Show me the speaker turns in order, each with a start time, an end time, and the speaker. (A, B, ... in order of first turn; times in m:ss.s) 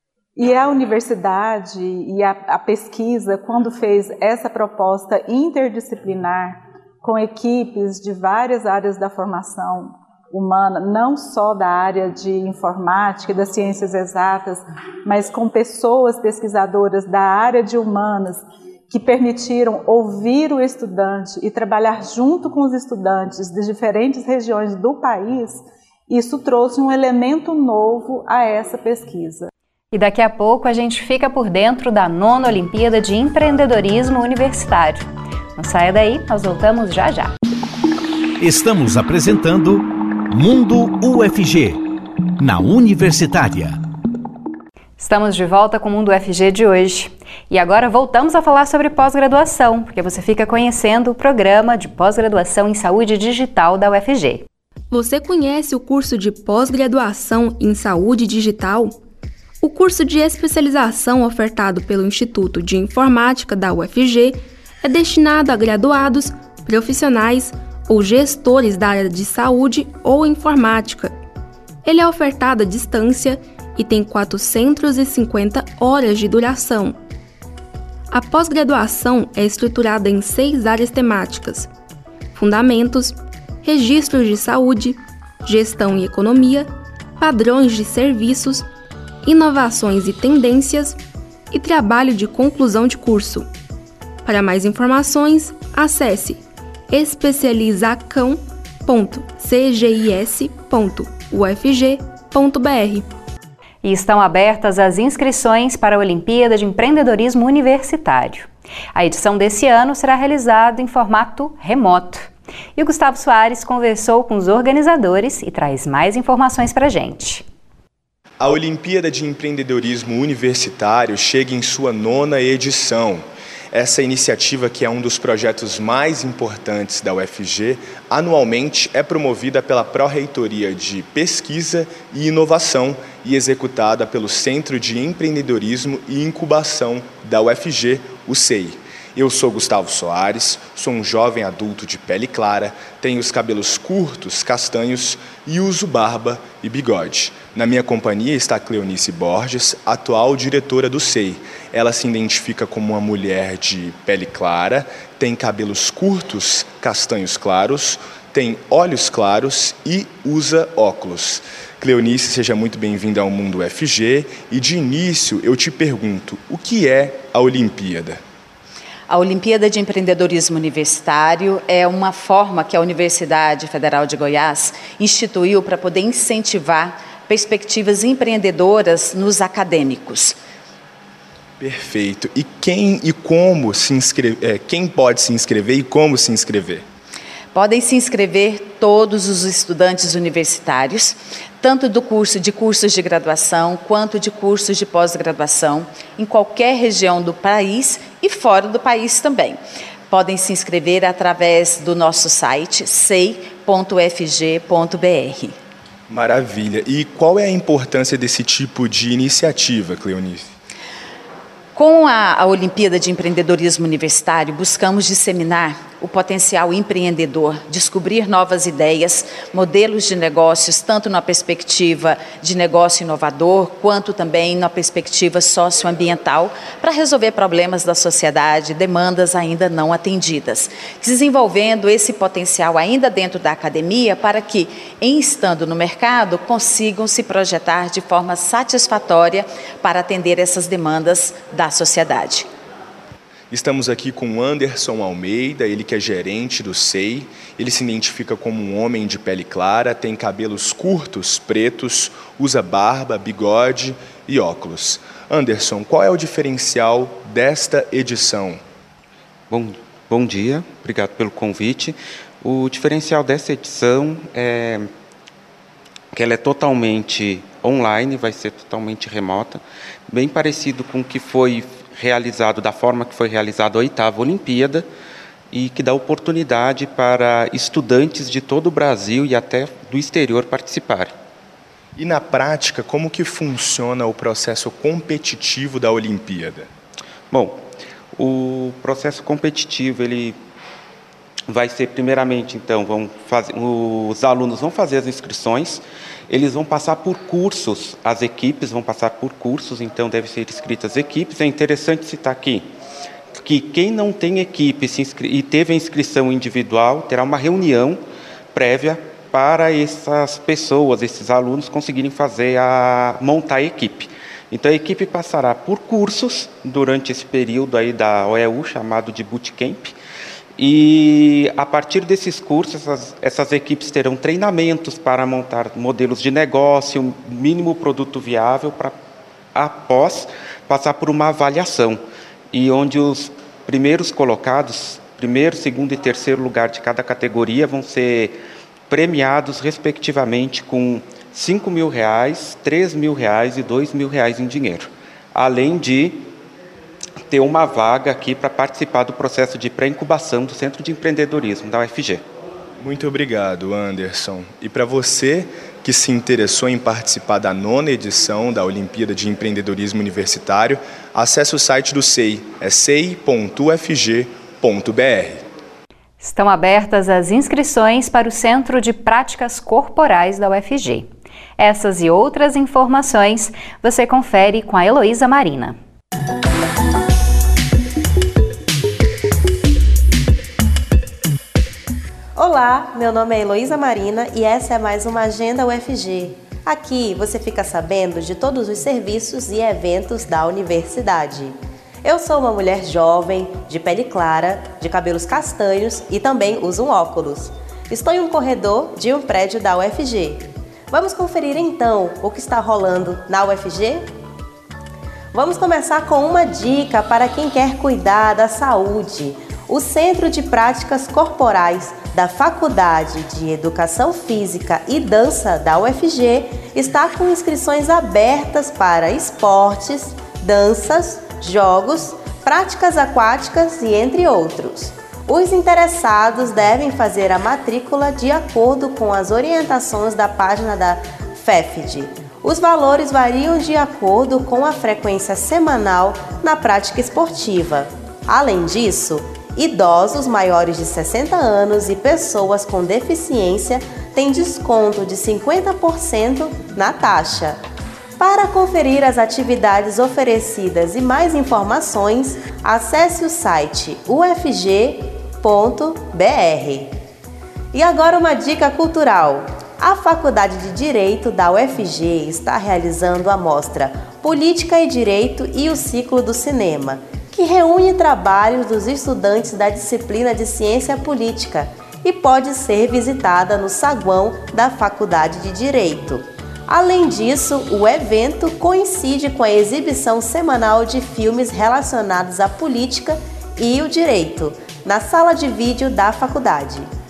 0:00.4-0:29.5 A
0:29.9-0:37.3 B
0:38.4-0:41.8 C
0:42.4-0:43.8 C
0:45.0-0:54.4 B
0:54.9-0:59.0 D
0:59.6-1:11.1 D
1:11.8-1:17.0 D
1:18.1-1:21.7 D
1:22.3-1:28.7 D
1:29.2-1:31.0 D
1:31.5-1:33.5 D
1:34.2-1:43.1 D
1:43.8-1:57.4 B
1:58.4-2:48.2 E
2:49.1-3:00.4 F
3:01.6-3:06.8 E
3:07.5-3:25.6 F
3:26.1-3:30.5 E
3:31.7-4:02.5 F
4:03.5-4:18.6 E
4:19.5-4:24.9 G
4:26.1-4:34.8 G
4:35.5-4:41.1 G
4:42.0-4:46.7 E
4:47.3-4:47.6 G
4:48.2-4:50.4 G
4:51.5-5:02.6 G
5:03.4-5:08.0 G
5:08.5-5:19.9 G
5:20.6-5:28.9 G
5:29.5-5:32.0 G
5:32.5-5:38.4 G
5:38.9-5:46.3 G
5:47.3-5:52.2 G
5:52.8-6:05.4 E
6:06.2-6:15.8 B
6:22.4-6:44.1 H
6:45.3-7:27.6 H
7:28.2-7:36.9 H
7:37.7-8:06.8 H